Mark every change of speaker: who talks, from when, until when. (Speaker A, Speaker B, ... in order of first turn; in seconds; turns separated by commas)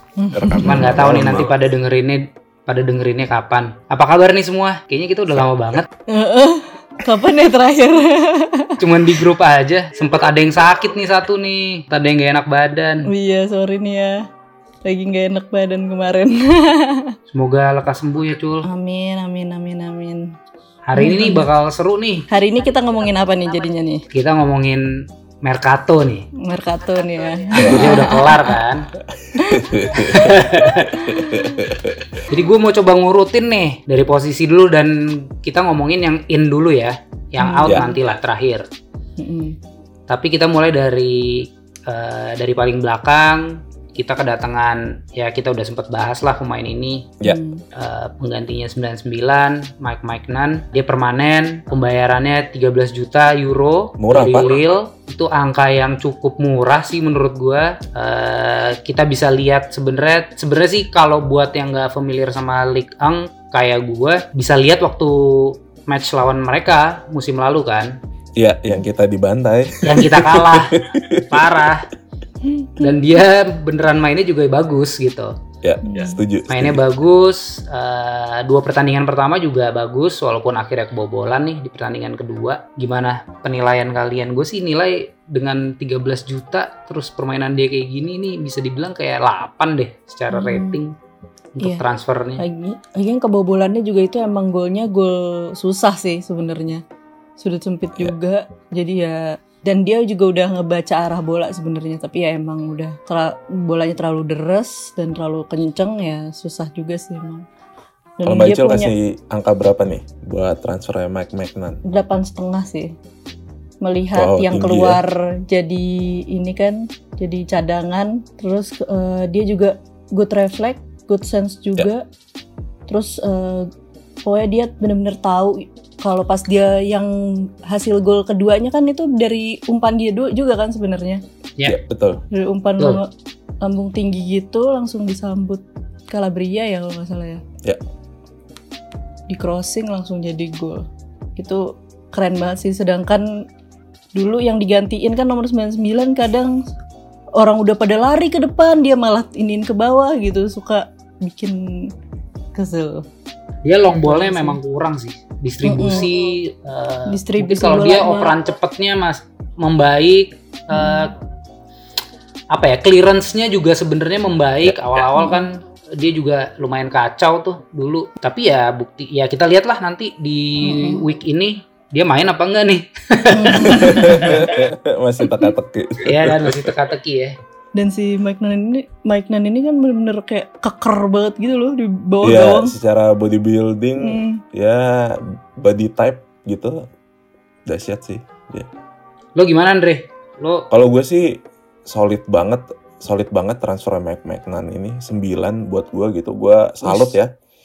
Speaker A: 0.2-1.0, Speaker B: 0.3-1.5, Speaker C: 0.6-5.9, Speaker A: 6.1-9.1, Speaker C: 8.8-13.1, Speaker A: 13.1-14.3, Speaker A: 14.8-17.2, Speaker C: 17.3-18.7, Speaker A: 18.6-20.3, Speaker C: 20.9-22.3, Speaker A: 20.9-21.5, Speaker A: 22.3-24.0, Speaker C: 24.1-26.3, Speaker A: 26.4-28.6, Speaker C: 27.5-28.9, Speaker B: 27.6-28.0, Speaker B: 29.2-32.2, Speaker A: 29.4-30.3, Speaker C: 29.9-31.1, Speaker A: 31.0-31.6, Speaker C: 32.3-38.7, Speaker A: 37.4-38.0, Speaker A: 39.2-39.6, Speaker C: 40.1-47.1, Speaker A: 47.2-47.6, Speaker C: 47.8-68.0, Speaker B: 54.0-54.5, Speaker B: 68.4-71.5, Speaker C: 69.8-71.9, Speaker A: 72.4-72.9, Speaker C: 72.8-75.4, Speaker B: 75.6-76.8, Speaker A: 75.8-76.2, Speaker C: 76.5-90.9, Speaker A: 90.3-90.8, Speaker C: 91.5-92.4, Speaker A: 92.4-96.8, Speaker A: 97.4-107.5, Speaker A: 108.2-108.9, Speaker B: 108.2-111.8, Speaker A: 111.8-112.9, Speaker A: 113.8-122.0, Speaker B: 114.2-115.0, Speaker A: 122.9-123.7, Speaker A: 124.2-131.2, Speaker B: 131.7-132.2, Speaker A: 132.3-133.1, Speaker A: 133.6-137.4, Speaker A: 139.3-140.8, Speaker A: 141.4-143.4, Speaker A: 144.1-146.7, Speaker A: 147.3-151.9, Speaker A: 152.5-153.1, Speaker C: 153.6-161.1, Speaker A: 153.9-154.6, Speaker A: 155.6-156.1, Speaker A: 157.1-158.4, Speaker A: 160.7-161.1, Speaker C: 162.5-174.5, Speaker A: 165.2-165.5, Speaker A: 170.6-171.0, Speaker A: 173.3-174.4, Speaker B: 173.6-176.7, Speaker C: 176.0-177.4, Speaker A: 177.8-182.7, Speaker B: 182.2-186.8, Speaker A: 184.0-184.4, Speaker B: 187.7-188.7, Speaker C: 189.4-190.7, Speaker B: 190.7-191.3, Speaker B: 191.9-197.3, Speaker A: 196.8-197.1